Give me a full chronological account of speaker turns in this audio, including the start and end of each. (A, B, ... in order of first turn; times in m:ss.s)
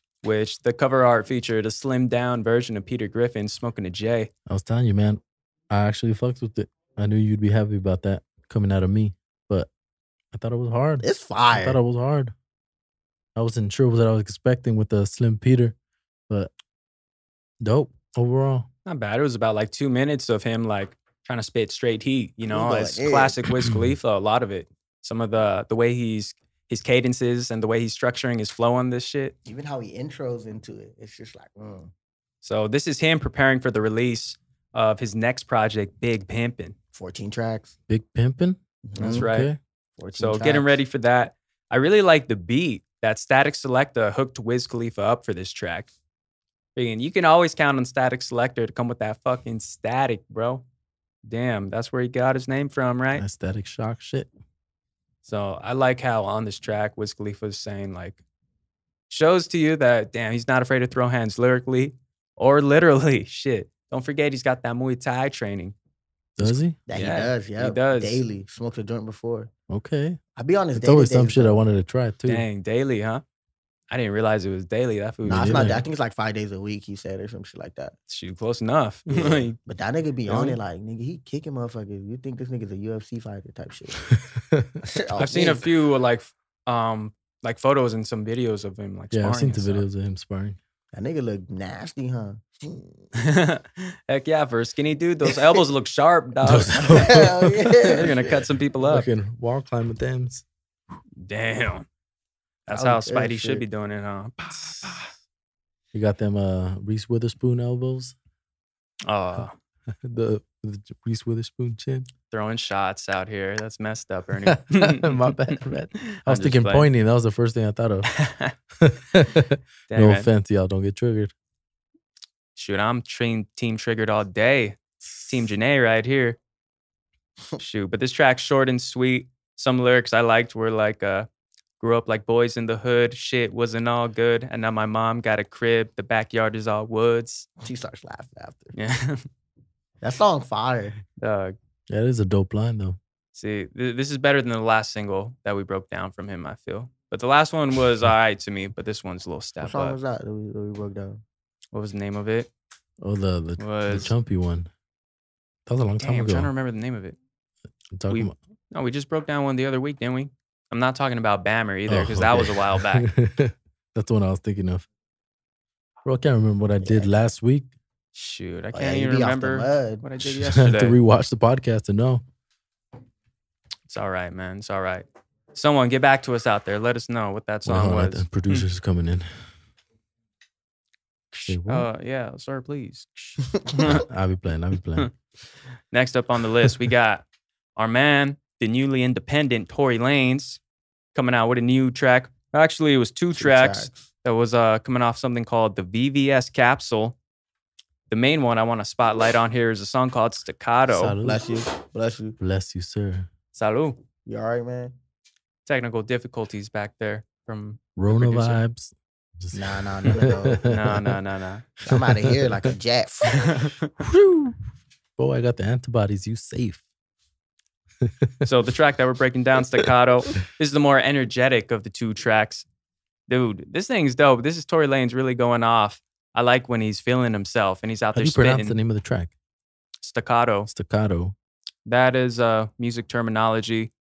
0:00.2-0:04.3 A
0:04.5-0:09.7 B
0:10.3-0:12.3 B
0:11.0-0:11.8 C
0:13.4-0:15.8 B
0:17.6-0:18.7 B
0:18.9-0:29.3 A
0:22.5-0:23.4 C
0:23.6-0:23.9 B
0:29.4-0:31.9 C
0:32.4-0:36.8 A
0:36.9-0:37.7 C
0:37.9-0:39.6 B
0:38.8-0:39.3 C
0:39.0-0:39.5 A
0:40.0-0:40.8 C
0:40.2-0:45.9 A
0:46.8-0:50.6 A
0:51.2-0:53.2 A
0:53.2-0:54.3 B
0:55.2-0:58.2 A
0:59.1-1:05.8 A
1:06.4-1:06.8 B
1:06.5-1:09.5 C
1:06.9-1:08.2 A
1:09.7-1:10.2 B
1:10.4-1:11.6 C
1:10.8-1:12.4 B
1:12.3-1:13.2 A
1:13.9-1:15.8 A
1:15.2-1:18.0 C
1:15.3-1:15.8 B
1:18.1-1:19.6 A
1:19.1-1:24.1 C
1:20.3-1:20.6 A
1:24.1-1:24.8 B
1:24.8-1:25.7 C
1:25.2-1:29.8 A
1:29.1-1:30.6 B
1:30.9-1:33.1 C
1:33.2-1:37.1 A
1:35.3-1:35.6 C
1:36.4-1:37.8 B
1:36.8-1:38.4 C
1:37.8-1:39.1 A
1:38.8-1:40.4 B
1:41.2-1:41.9 A
1:42.7-1:45.1 A
1:42.7-1:43.6 C
1:45.9-1:48.2 B
1:49.1-1:49.5 A
1:50.0-1:52.1 B
1:52.3-1:56.9 A
1:54.5-1:58.1 B
1:58.1-1:58.5 A
1:58.8-2:01.3 B
1:59.9-2:00.3 A
2:02.6-2:06.4 A
2:05.0-2:05.3 B
2:07.6-2:11.3 A
2:11.8-2:17.5 A
2:17.6-2:18.8 C
2:18.8-2:19.3 A
2:20.0-2:21.0 C
2:21.2-2:21.6 A
2:21.9-2:23.0 B
2:23.3-2:30.0 A
2:29.6-2:31.2 C
2:31.7-2:32.5 A
2:33.0-2:34.7 B
2:33.6-2:34.1 A
2:35.7-2:36.5 B
2:36.0-2:37.2 A
2:37.9-2:38.3 B
2:38.1-2:43.1 A
2:41.9-2:44.9 B
2:46.0-2:47.7 B
2:46.8-2:47.1 C
2:48.1-2:51.0 A
2:48.7-2:50.1 C
2:50.2-2:52.2 B
2:53.9-2:58.7 A
2:57.6-2:59.3 B
3:01.3-3:04.0 A
3:01.5-3:01.9 B
3:03.8-3:05.1 B
3:05.9-3:07.2 A
3:07.8-3:10.6 A
3:11.1-3:17.2 A
3:13.4-3:14.1 C
3:18.1-3:21.2 A
3:20.9-3:21.4 B
3:21.2-3:22.4 C
3:22.4-3:23.3 B
3:23.5-3:24.0 A
3:24.3-3:25.0 C
3:25.7-3:28.6 A
3:28.0-3:31.2 B
3:29.5-3:30.6 C
3:30.2-3:31.7 A
3:31.8-3:33.6 C
3:31.9-3:32.8 B
3:33.3-3:33.9 A
3:34.0-3:34.6 B
3:35.2-3:36.8 B
3:38.0-3:38.5 B
3:38.4-3:42.7 A
3:43.3-3:48.8 A
3:48.1-3:49.3 B
3:50.0-3:50.7 A
3:50.7-3:51.3 B
3:51.9-3:53.9 A